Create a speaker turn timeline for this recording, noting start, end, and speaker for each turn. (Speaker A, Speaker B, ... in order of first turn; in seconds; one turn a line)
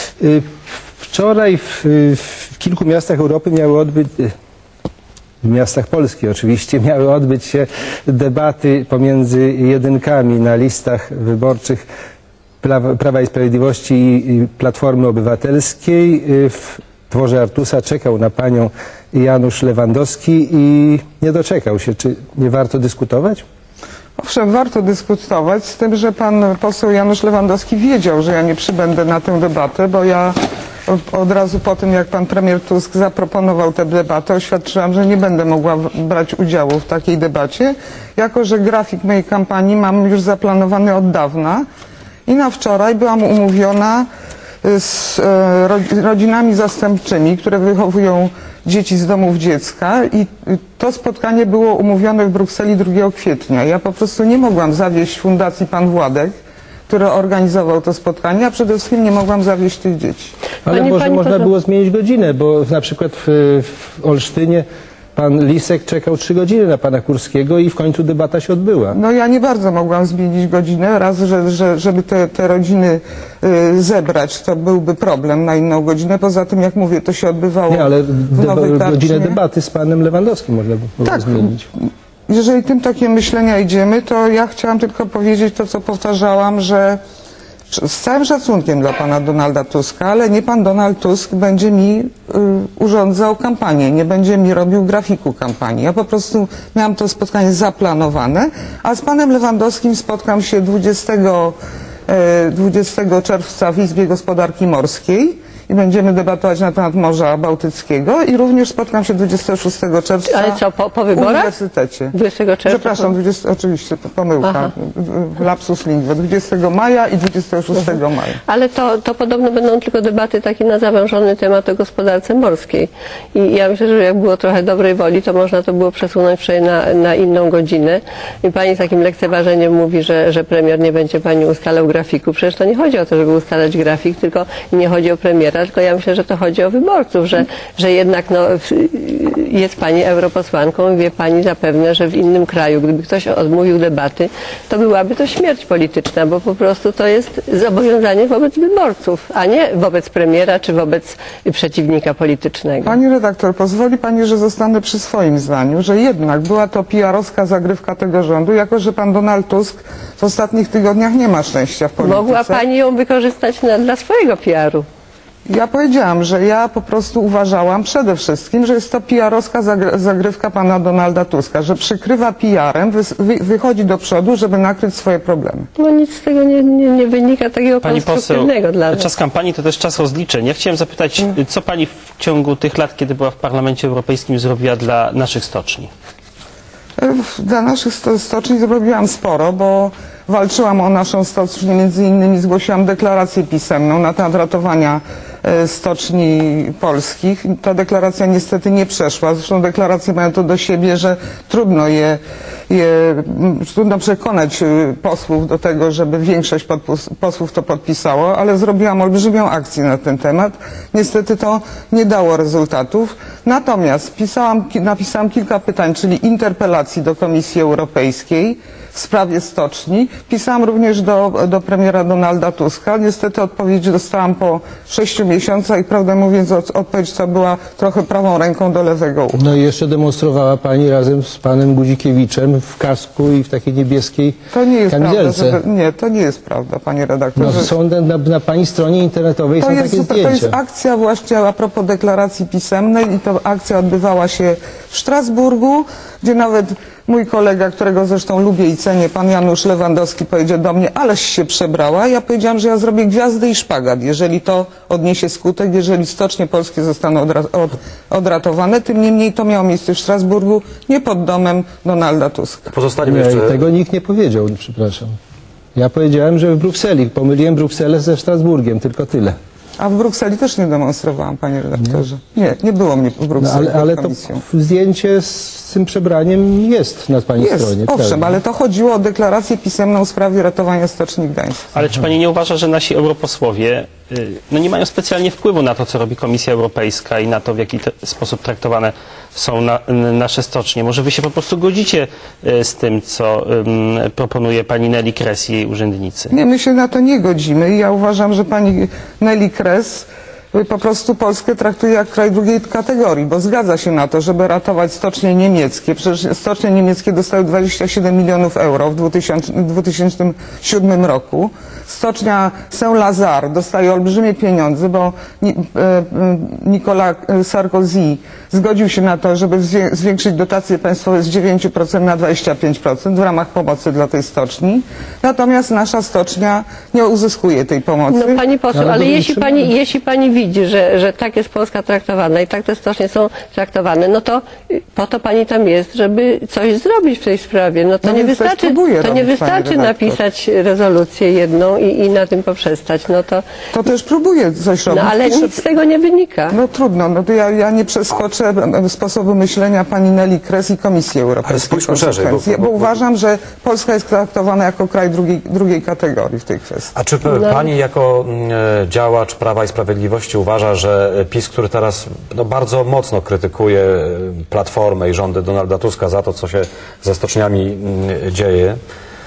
Speaker A: 0.2-0.5
Speaker A: 1.1-4.3
Speaker A: 5.4-11.8
Speaker A: 12.6-23.4
Speaker B: 24.2-41.6
Speaker B: 42.3-44.1
Speaker B: 44.6-56.3
Speaker B: 56.9-60.4
Speaker A: 60.6-69.0
Speaker C: 60.7-61.5
Speaker B: 68.9-79.4
Speaker A: 77.7-81.7
Speaker B: 81.0-87.0
Speaker B: 87.7-101.5
Speaker B: 102.1-110.6
Speaker C: 110.3-111.5
Speaker B: 111.1-112.1
Speaker C: 112.1-113.1
Speaker B: 112.7-118.4
Speaker C: 114.4-114.7
Speaker C: 118.5-153.0
Speaker B: 152.8-162.6
Speaker C: 162.0-164.9
Speaker B: 165.5-175.7
Speaker C: 175.8-179.1
Speaker D: 177.8-185.9
Speaker B: 187.0-229.4
Speaker A: 229.3-235.6
Speaker B: 234.5-237.7
Speaker A: 237.4-240.6
Speaker B: 239.6-262.7
Speaker E: 262.7-263.6
Speaker A: 263.0-265.2
Speaker A: 265.8-269.4
Speaker B: 269.8-274.4
Speaker A: 273.4-278.4
Speaker B: 277.4-281.7
Speaker D: 281.8-296.3
Speaker B: 296.3-328.4
Speaker C: 328.1-343.4
Speaker A: 328.7-329.6
Speaker B: 338.0-340.2
Speaker B: 343.7-345.6
Speaker C: 344.9-346.6
Speaker B: 346.5-356.9
Speaker E: 351.5-352.9
Speaker E: 356.9-368.8
Speaker C: 357.3-357.7